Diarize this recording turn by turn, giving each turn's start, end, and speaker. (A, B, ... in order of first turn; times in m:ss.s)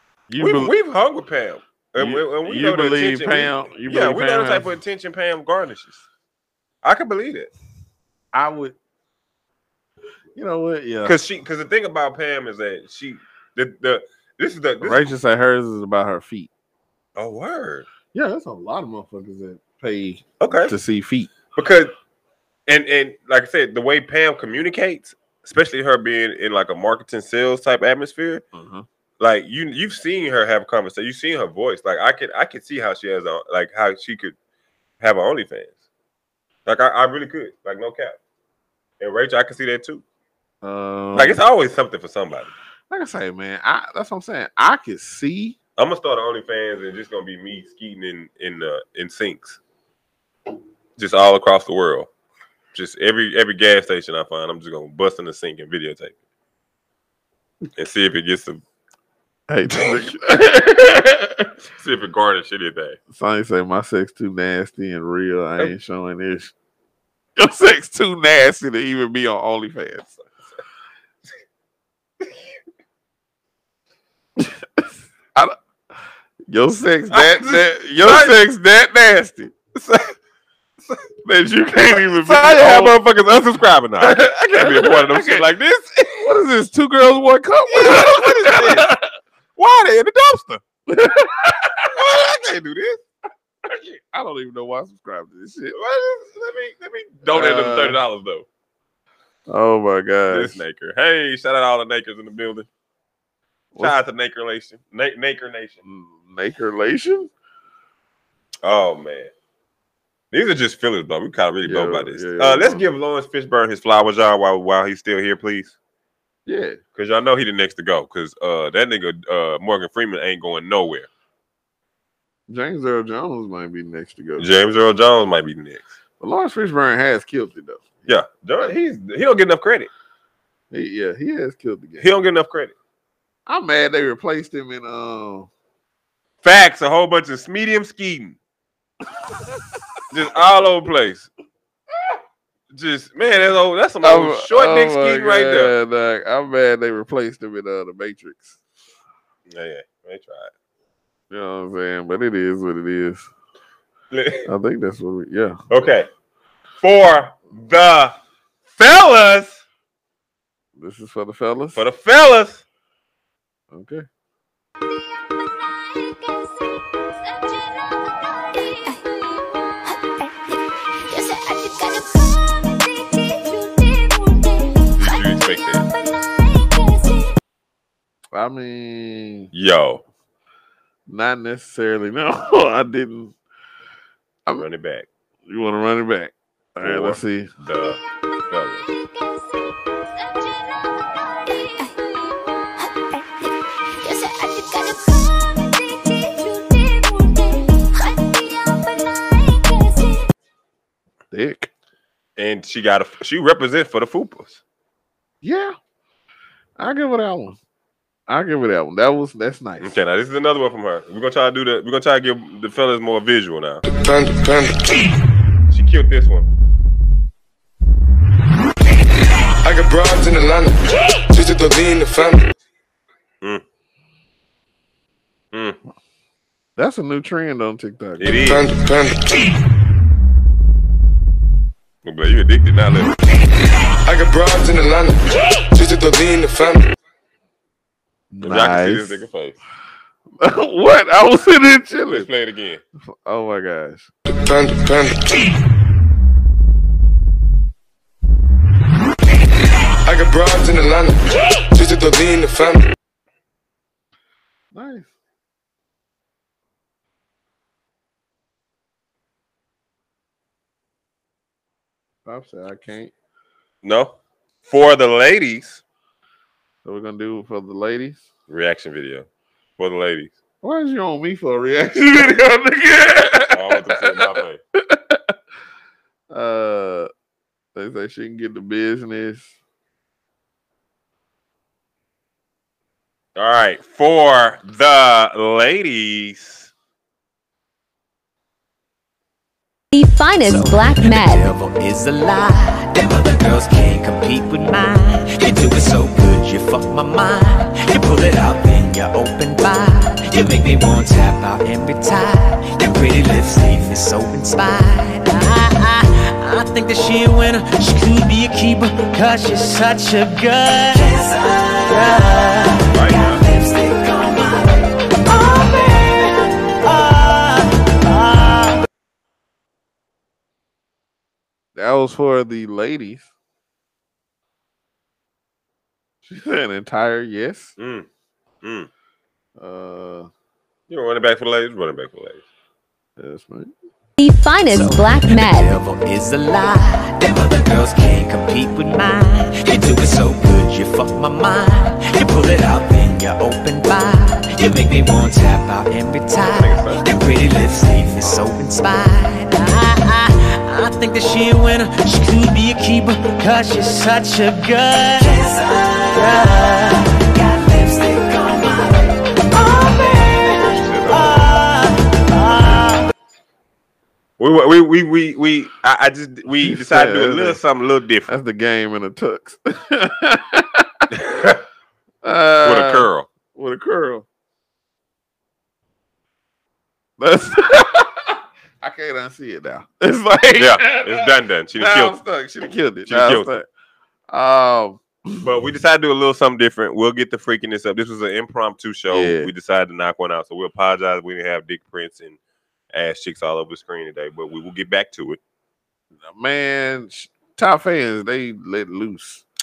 0:00.3-0:00.7 A
0:00.4-0:06.0 B
0:02.0-0:04.7 A
0:06.8-0:07.5 B
0:08.3-0:08.8 A
0:10.3-0:11.2 A
0:11.0-0:15.1 B
0:14.8-0:16.5 A
0:17.2-0:17.9 B
0:18.1-0:21.3 A
0:20.4-0:20.7 B
0:21.5-0:21.9 B
0:22.7-0:28.4 B
0:28.5-0:28.8 A
0:29.2-0:34.4 B
0:35.0-0:35.7 B
0:36.6-0:38.2 B
0:39.0-0:40.0 B
0:40.6-0:41.4 A
0:41.1-0:42.5 B
0:42.9-0:45.6 A
0:45.8-0:49.6 B
0:51.0-0:52.1 B
0:52.7-0:56.1 B
0:57.8-0:58.6 B
0:59.5-1:01.5 A
1:01.7-1:03.0 B
1:03.1-1:06.5 A
1:07.4-1:10.2 A
1:14.4-1:15.6 A
1:16.5-1:19.5 A
1:17.1-1:18.4 B
1:19.7-1:20.1 B
1:21.2-1:23.0 A
1:21.8-1:26.3 B
1:24.0-1:25.5 A
1:26.2-1:29.1 A
1:27.7-1:28.9 B
1:29.6-1:30.6 B
1:30.9-1:32.0 A
1:31.9-1:33.0 B
1:33.6-1:35.8 A
1:35.7-1:38.4 B
1:37.3-1:38.0 A
1:39.5-1:40.6 A
1:40.3-1:42.7 B
1:43.8-1:45.8 B
1:45.8-1:47.3 A
1:48.6-1:49.3 B
1:50.3-1:55.8 B
1:51.6-1:52.8 A
1:56.4-1:56.8 A
1:56.9-2:01.1 B
2:02.5-2:04.5 A
2:04.4-2:05.9 B
2:06.2-2:08.0 A
2:08.1-2:09.9 B
2:10.7-2:12.1 A
2:12.0-2:12.7 B
2:13.5-2:15.5 A
2:16.4-2:18.4 B
2:19.3-2:20.0 A
2:20.1-2:21.3 B
2:22.7-2:25.7 B
2:24.0-2:28.6 A
2:29.5-2:30.5 B
2:31.3-2:33.3 A
2:34.1-2:34.5 B
2:34.4-2:35.8 A
2:35.7-2:36.1 B
2:36.8-2:38.2 B
2:38.7-2:39.6 B
2:40.8-2:41.8 A
2:41.7-2:42.6 B
2:43.7-2:44.0 A
2:55.0-2:56.0 B
2:58.3-2:59.5 A
2:59.5-3:00.0 B
3:01.1-3:03.3 A
3:04.5-3:05.1 B
3:05.5-3:07.5 A
3:06.8-3:08.9 B
3:21.3-3:21.7 A
3:22.4-3:24.6 B
3:25.4-3:25.8 A
3:26.8-3:27.6 A
3:28.3-3:29.9 A
3:29.8-3:33.8 B
3:33.9-3:35.0 C
3:35.7-3:36.5 B
3:39.6-3:42.5 C
3:45.5-3:45.8 B
3:46.8-3:48.6 A
3:48.2-3:48.7 B
3:48.4-3:49.4 C
3:52.0-3:53.1 B
3:54.0-3:56.9 C
3:58.3-3:59.2 A
3:58.4-3:59.6 B
4:00.4-4:02.3 A
4:02.1-4:02.8 B
4:03.1-4:04.1 A
4:04.4-4:05.4 C
4:10.0-4:12.9 C
4:14.7-4:15.1 A
4:22.2-4:23.1 A
4:23.8-4:25.8 B
4:26.8-4:28.2 A
4:28.5-4:29.3 B
4:29.8-4:30.3 B
4:30.6-4:35.3 A
4:33.5-4:34.6 B
4:36.3-4:37.1 A
4:37.7-4:39.5 A
4:43.4-4:46.7 B
4:49.9-4:51.4 D
4:50.4-5:18.8 E
5:12.9-5:13.4 B
5:21.7-5:23.3 A
5:26.3-5:27.8 A
5:27.8-5:28.1 B
5:28.6-5:28.9 B
5:29.6-5:30.3 A
5:30.9-5:32.4 B
5:33.2-5:33.7 A
5:34.2-5:35.7 D
5:34.7-6:03.1 E
5:46.4-5:47.0 B
6:00.6-6:01.5 B
6:04.4-6:08.3 B
6:06.6-6:07.6 A
6:08.3-6:11.0 A
6:11.1-6:11.6 B
6:12.2-6:14.2 A
6:12.6-6:13.3 B
6:17.2-6:23.7 A
6:20.6-6:22.2 B
6:23.0-6:23.5 B
6:24.3-6:25.4 A
6:25.4-6:32.4 B
6:29.1-6:29.5 A
6:32.9-6:35.4 B
6:36.3-6:39.4 A